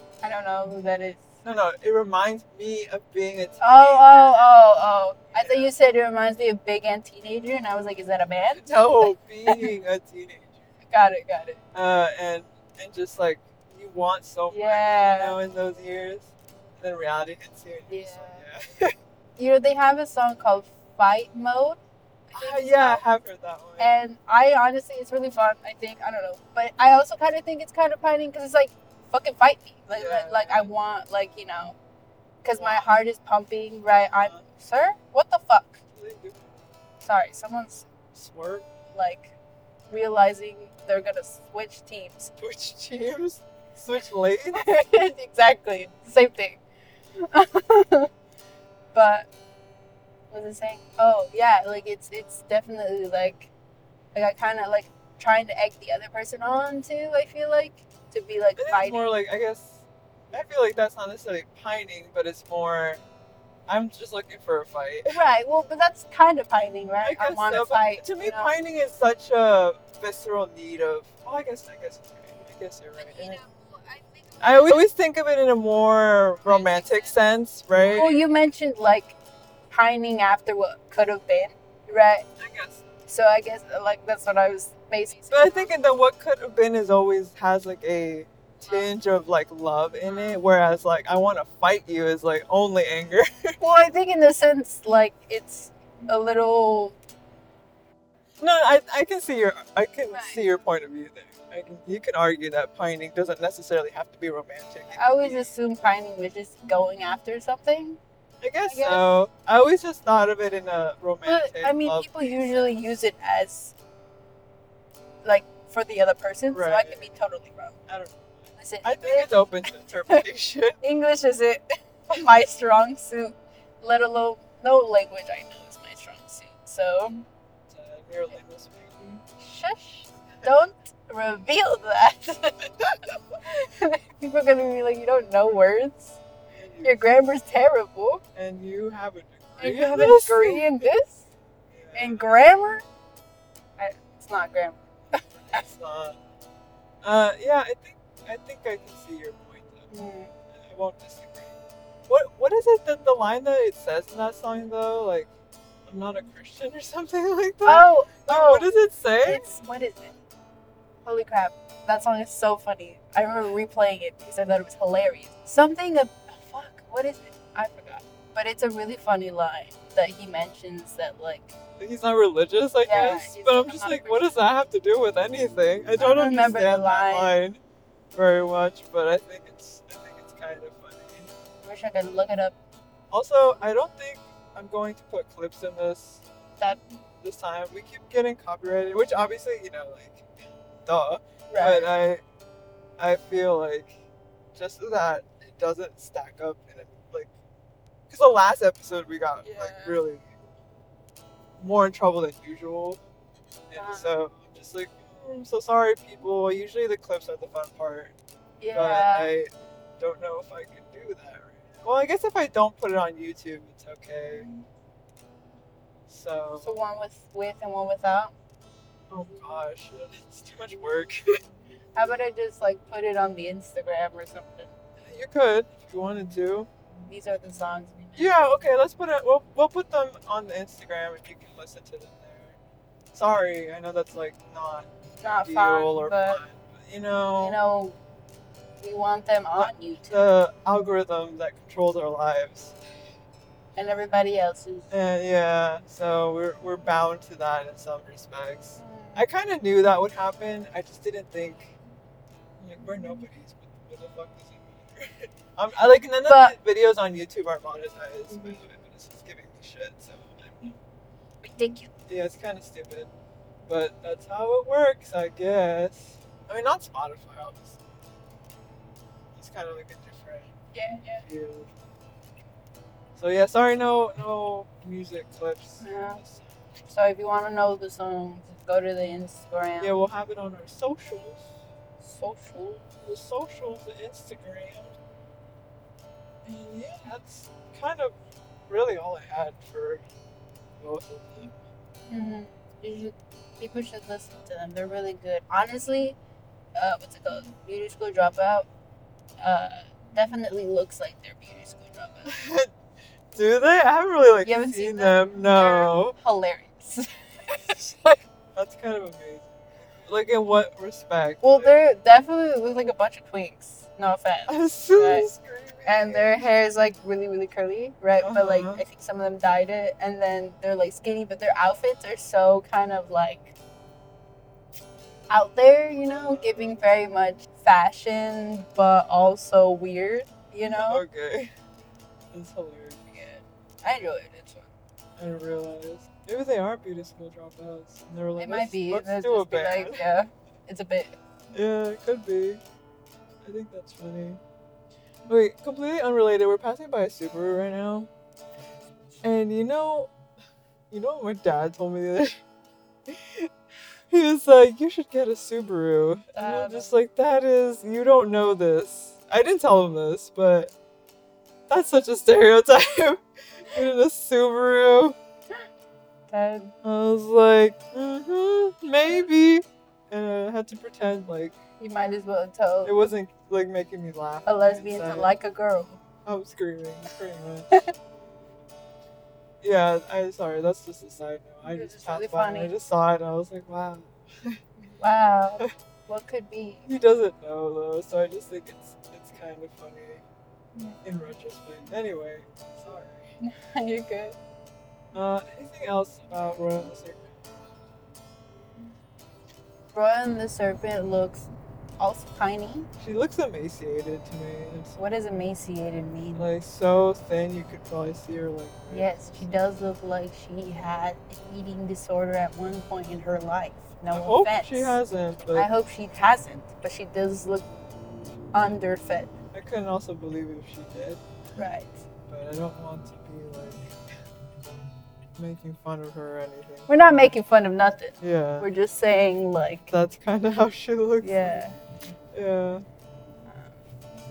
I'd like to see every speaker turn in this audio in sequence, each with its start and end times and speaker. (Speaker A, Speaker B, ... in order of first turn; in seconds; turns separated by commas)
Speaker A: 0.2-1.3, Speaker B: 1.4-4.4, Speaker A: 3.6-9.7, Speaker B: 5.3-5.7, Speaker B: 8.6-10.6, Speaker A: 10.9-11.6, Speaker B: 11.7-18.9, Speaker A: 14.5-15.4, Speaker A: 17.9-18.4, Speaker A: 19.4-21.8, Speaker A: 22.3-23.0, Speaker B: 22.3-23.9, Speaker A: 23.8-31.8, Speaker B: 29.9-30.7, Speaker A: 32.4-35.8, Speaker B: 32.5-32.9, Speaker B: 34.2-34.4, Speaker B: 35.9-36.7, Speaker A: 37.0-37.9, Speaker B: 38.1-38.7, Speaker A: 38.9-39.3, Speaker A: 39.9-42.3, Speaker B: 42.4-44.6, Speaker A: 44.5-46.6, Speaker A: 47.2-48.1, Speaker A: 48.9-49.3, Speaker A: 50.3-53.5, Speaker A: 54.1-59.1, Speaker B: 58.6-63.0, Speaker B: 63.7-65.2, Speaker A: 65.1-68.5, Speaker B: 67.0-73.4, Speaker A: 73.0-74.8, Speaker B: 74.4-78.2, Speaker A: 76.5-77.1, Speaker A: 77.8-79.2, Speaker A: 79.7-82.3, Speaker B: 82.4-82.8, Speaker A: 83.1-85.7, Speaker B: 85.3-93.6, Speaker A: 90.0-90.4, Speaker A: 93.6-97.0, Speaker B: 98.4-105.4, Speaker A: 100.1-100.4, Speaker A: 104.9-108.0, Speaker B: 108.4-112.3, Speaker A: 108.7-109.1, Speaker A: 111.2-113.7, Speaker A: 115.2-117.8, Speaker B: 116.5-117.1, Speaker B: 117.9-120.8, Speaker A: 118.6-120.2, Speaker A: 120.8-127.2, Speaker B: 127.7-129.0, Speaker A: 129.0-136.2, Speaker B: 136.5-137.1, Speaker A: 136.8-138.2, Speaker B: 138.3-140.8, Speaker A: 139.6-141.3, Speaker B: 141.7-142.3, Speaker A: 141.9-142.8, Speaker A: 143.8-145.6, Speaker B: 145.4-146.2, Speaker B: 147.0-149.9, Speaker A: 149.9-150.3, Speaker B: 150.5-151.6, Speaker B: 152.1-155.3, Speaker B: 155.9-159.4, Speaker A: 157.6-158.7, Speaker A: 159.2-160.1, Speaker A: 161.0-171.5, Speaker B: 171.8-177.6, Speaker A: 172.8-174.3, Speaker A: 176.0-177.3, Speaker B: 178.1-181.3, Speaker A: 181.6-182.5, Speaker B: 183.1-186.2, Speaker B: 187.2-190.2, Speaker B: 190.8-192.2, Speaker A: 191.5-191.9, Speaker B: 193.0-194.0, Speaker B: 194.5-197.3, Speaker B: 198.1-200.2, Speaker A: 199.4-200.0, Speaker B: 201.6-203.0, Speaker B: 203.7-208.1, Speaker A: 203.8-204.1, Speaker A: 208.6-209.3, Speaker B: 208.7-214.4, Speaker B: 216.1-216.7, Speaker A: 216.6-218.3, Speaker B: 219.1-221.4, Speaker A: 221.9-224.7, Speaker B: 225.0-226.7, Speaker A: 227.1-228.3, Speaker B: 228.2-232.6, Speaker B: 233.1-234.9, Speaker A: 235.2-236.4, Speaker B: 235.4-237.6, Speaker A: 237.4-238.0, Speaker A: 238.8-240.2, Speaker B: 239.6-242.8, Speaker A: 243.8-244.9, Speaker B: 244.9-251.8, Speaker A: 248.8-249.2, Speaker B: 252.6-260.7, Speaker A: 256.3-256.6, Speaker A: 258.3-258.6, Speaker A: 261.4-261.9, Speaker B: 262.1-263.1, Speaker B: 263.7-267.8, Speaker B: 269.3-270.5, Speaker A: 270.7-271.2, Speaker B: 271.2-271.7, Speaker B: 273.1-276.4, Speaker A: 275.8-276.2, Speaker A: 276.9-280.0, Speaker B: 279.8-281.5, Speaker A: 282.0-282.9, Speaker B: 283.0-285.0, Speaker B: 286.4-288.1, Speaker B: 288.7-290.0, Speaker B: 290.8-291.6, Speaker A: 292.1-296.2, Speaker A: 296.7-298.7, Speaker A: 299.4-302.4, Speaker B: 302.2-302.7, Speaker B: 303.3-306.1, Speaker A: 304.4-308.2, Speaker B: 308.5-311.7, Speaker A: 311.4-315.3, Speaker B: 314.5-316.3, Speaker A: 315.9-323.5, Speaker B: 318.2-318.8, Speaker A: 325.3-331.0, Speaker B: 326.1-326.8, Speaker B: 330.7-331.5, Speaker B: 332.3-333.0, Speaker A: 333.1-334.7, Speaker B: 335.2-340.0, Speaker A: 338.4-341.1, Speaker B: 341.5-342.6, Speaker B: 343.4-344.4, Speaker B: 345.3-348.1, Speaker B: 349.2-350.1, Speaker B: 350.9-352.4, Speaker B: 353.1-353.5, Speaker B: 354.1-360.7, Speaker A: 356.3-356.9, Speaker B: 361.7-365.1, Speaker A: 366.3-366.7, Speaker B: 366.8-371.6, Speaker A: 371.8-373.0, Speaker B: 372.8-375.3, Speaker A: 374.4-376.0, Speaker B: 376.2-377.8, Speaker B: 379.6-384.6, Speaker A: 381.6-382.7, Speaker A: 384.8-386.9, Speaker B: 386.9-390.2, Speaker B: 391.0-393.3, Speaker A: 393.4-394.4, Speaker B: 395.1-397.4, Speaker A: 399.9-402.9, Speaker B: 403.0-405.0, Speaker A: 405.0-406.5, Speaker B: 406.3-409.5, Speaker A: 408.9-415.0, Speaker B: 414.1-415.7, Speaker A: 415.5-417.7, Speaker A: 418.5-419.3, Speaker B: 419.5-421.2, Speaker A: 421.6-422.0, Speaker B: 422.3-423.9, Speaker B: 425.4-427.0, Speaker A: 426.9-429.9, Speaker B: 428.2-428.7, Speaker B: 429.9-431.6, Speaker A: 431.2-431.8, Speaker B: 432.3-432.8, Speaker A: 433.5-433.8